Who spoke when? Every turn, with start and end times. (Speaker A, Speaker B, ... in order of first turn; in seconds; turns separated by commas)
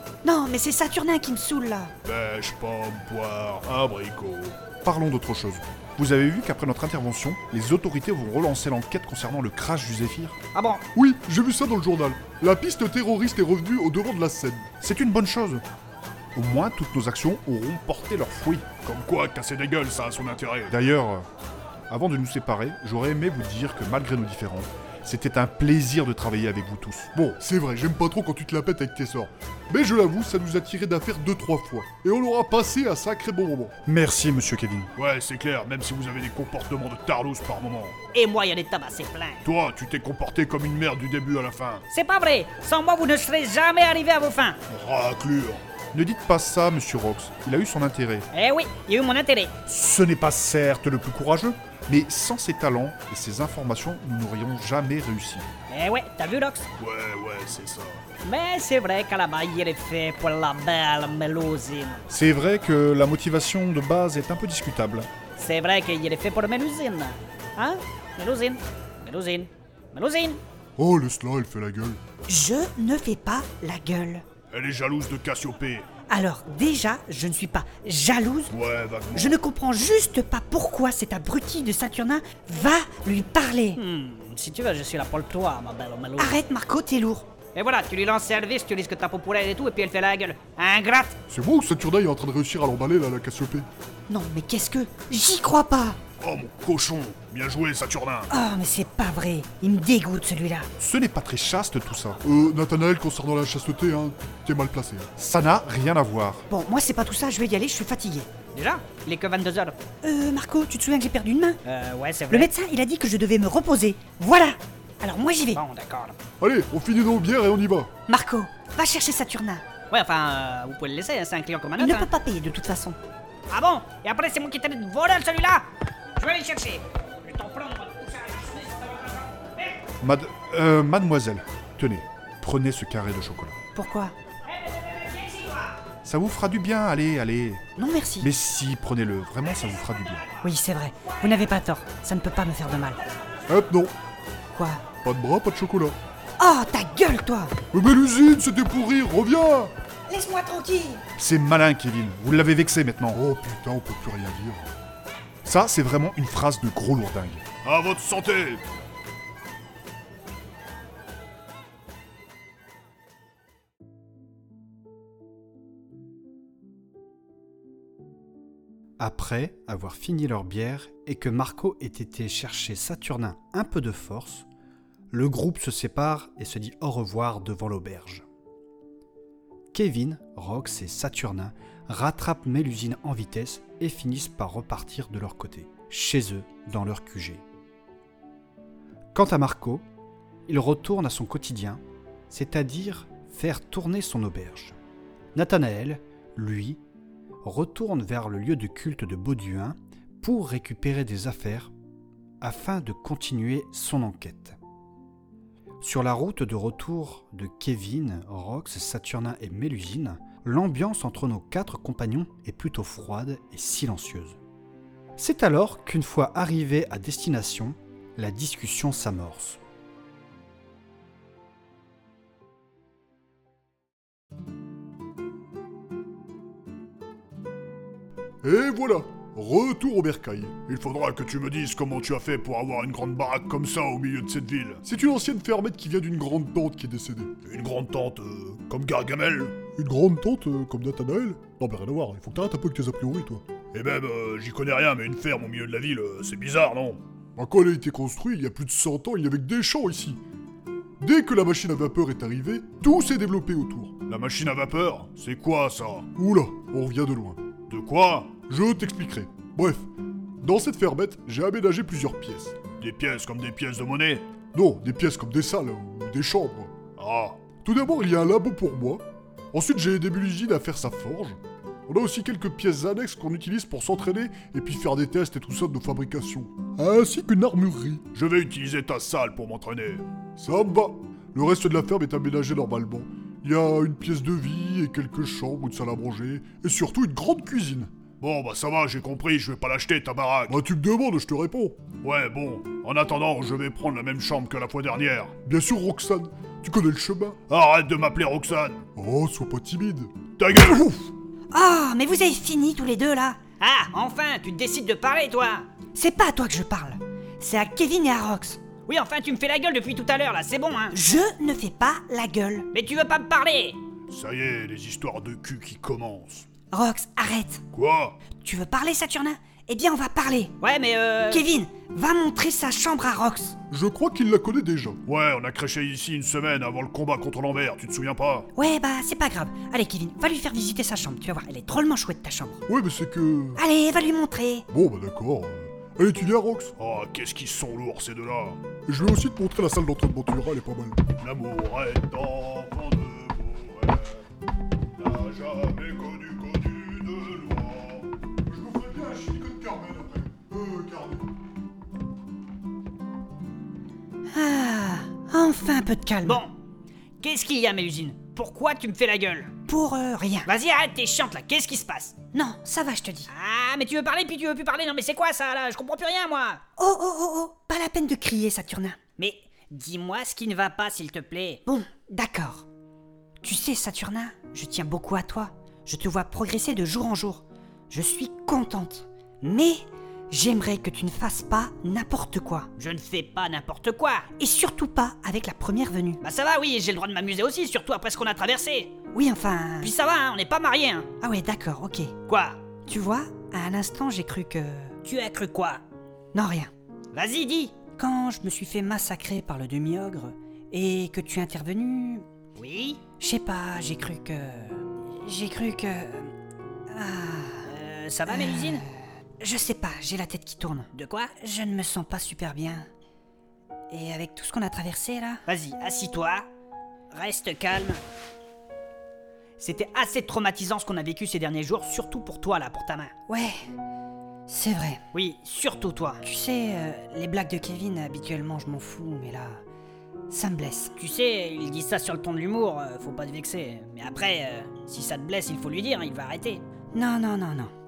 Speaker A: 0.2-1.9, Speaker B: 2.0-4.6, Speaker C: 4.8-10.4, Speaker D: 10.5-10.8, Speaker E: 10.9-14.7, Speaker C: 14.8-15.6, Speaker C: 16.4-18.7, Speaker B: 18.8-20.7, Speaker C: 20.7-21.3, Speaker C: 21.9-27.1, Speaker E: 27.1-33.8, Speaker C: 33.9-34.9, Speaker B: 35.0-38.0, Speaker D: 38.1-39.4, Speaker B: 39.5-41.8, Speaker D: 41.9-44.6, Speaker B: 44.7-45.6, Speaker C: 45.9-48.3, Speaker D: 48.3-49.5, Speaker C: 49.6-55.5, Speaker D: 55.7-56.7, Speaker B: 56.8-58.0, Speaker D: 58.2-62.0, Speaker C: 62.1-65.1, Speaker D: 65.4-70.4, Speaker E: 70.8-72.0, Speaker A: 72.3-74.2, Speaker B: 74.5-75.9, Speaker A: 76.1-78.5, Speaker B: 78.5-79.4, Speaker A: 79.1-83.8, Speaker D: 83.8-86.4, Speaker A: 86.2-87.3, Speaker D: 87.5-91.1, Speaker E: 91.3-93.7, Speaker A: 94.1-96.0, Speaker B: 96.2-98.3, Speaker A: 98.3-100.7, Speaker C: 100.8-102.2, Speaker E: 102.2-105.1, Speaker C: 105.2-106.5, Speaker A: 106.5-108.3, Speaker D: 108.5-109.8, Speaker A: 110.0-111.6, Speaker D: 111.6-112.5, Speaker A: 112.3-115.6, Speaker D: 115.5-116.2, Speaker E: 116.4-117.9, Speaker A: 118.1-119.7, Speaker D: 119.9-122.1, Speaker A: 121.8-123.0, Speaker D: 123.5-125.7, Speaker D: 126.2-129.8, Speaker C: 130.0-133.6, Speaker A: 133.8-134.2, Speaker D: 134.5-135.8, Speaker C: 136.0-137.6, Speaker A: 137.8-138.3, Speaker C: 138.2-140.2, Speaker A: 140.4-143.0, Speaker E: 143.5-143.9, Speaker A: 144.5-145.0, Speaker E: 145.0-146.0, Speaker A: 146.4-147.6, Speaker E: 147.7-149.7, Speaker A: 150.1-151.0, Speaker C: 151.2-153.2, Speaker E: 153.1-154.7, Speaker C: 155.4-157.4, Speaker B: 157.6-158.6, Speaker F: 169.0-174.5, Speaker F: 175.1-178.2, Speaker F: 179.7-187.4, Speaker F: 189.1-189.9, Speaker F: 190.5-194.8, Speaker F: 195.3-196.8, Speaker F: 197.4-201.7, Speaker F: 202.4-204.6, Speaker F: 205.8-214.4, Speaker F: 215.2-219.6, Speaker E: 228.4-230.6, Speaker B: 230.6-234.8, Speaker E: 234.8-237.3, Speaker B: 237.4-239.6, Speaker E: 239.7-243.4, Speaker B: 243.7-247.0, Speaker E: 247.4-250.2, Speaker E: 251.0-254.0, Speaker B: 254.1-256.1, Speaker E: 256.2-257.4, Speaker B: 257.7-258.4, Speaker E: 258.4-259.9, Speaker E: 260.4-262.6, Speaker B: 262.8-264.3, Speaker E: 264.5-266.8, Speaker B: 267.0-267.5, Speaker E: 267.6-278.1, Speaker B: 278.1-280.0, Speaker E: 280.4-287.9, Speaker B: 288.2-290.6, Speaker E: 290.5-291.9, Speaker B: 292.0-295.4, Speaker E: 295.4-297.4, Speaker B: 297.5-298.9, Speaker E: 299.0-300.1, Speaker B: 300.4-301.1, Speaker A: 301.5-303.4, Speaker D: 303.6-305.7, Speaker A: 305.9-308.6, Speaker D: 308.9-311.0, Speaker A: 310.9-312.7, Speaker D: 312.7-313.8, Speaker B: 314.1-316.5, Speaker A: 316.7-317.6, Speaker B: 317.7-318.2, Speaker A: 318.3-320.6, Speaker D: 320.6-321.4, Speaker A: 321.3-323.6, Speaker E: 323.7-325.0, Speaker B: 325.1-328.5, Speaker A: 328.6-332.6, Speaker E: 332.7-333.6, Speaker A: 333.6-334.7, Speaker E: 334.7-336.7, Speaker B: 336.8-338.6, Speaker E: 338.9-341.0, Speaker B: 341.2-344.3, Speaker B: 345.0-348.1, Speaker E: 348.4-351.3, Speaker A: 354.3-356.4, Speaker D: 356.2-356.5, Speaker D: 357.2-359.5, Speaker A: 359.6-360.5, Speaker D: 360.5-362.2, Speaker A: 362.3-363.3, Speaker D: 363.3-366.6, Speaker A: 366.8-369.0, Speaker D: 369.2-371.6, Speaker A: 371.7-372.6, Speaker A: 373.4-382.7, Speaker D: 382.8-384.3, Speaker A: 384.4-386.2, Speaker D: 386.2-388.9, Speaker A: 389.1-389.9, Speaker D: 389.8-391.1, Speaker A: 391.2-392.2, Speaker D: 392.3-392.6, Speaker A: 392.9-395.0, Speaker D: 395.0-395.8, Speaker A: 396.3-396.7, Speaker D: 397.1-397.8, Speaker A: 397.9-402.2, Speaker D: 402.6-403.0, Speaker A: 403.2-406.3, Speaker A: 406.9-407.7, Speaker D: 407.7-408.8, Speaker A: 408.3-408.9, Speaker A: 409.4-412.9, Speaker D: 410.9-411.3, Speaker A: 413.9-415.4, Speaker D: 415.5-416.5, Speaker D: 417.1-418.0, Speaker D: 419.6-423.1, Speaker A: 423.3-423.7, Speaker A: 424.5-425.1, Speaker D: 425.1-426.2, Speaker A: 426.2-429.6, Speaker A: 430.3-430.9, Speaker D: 431.0-436.6, Speaker A: 436.9-437.7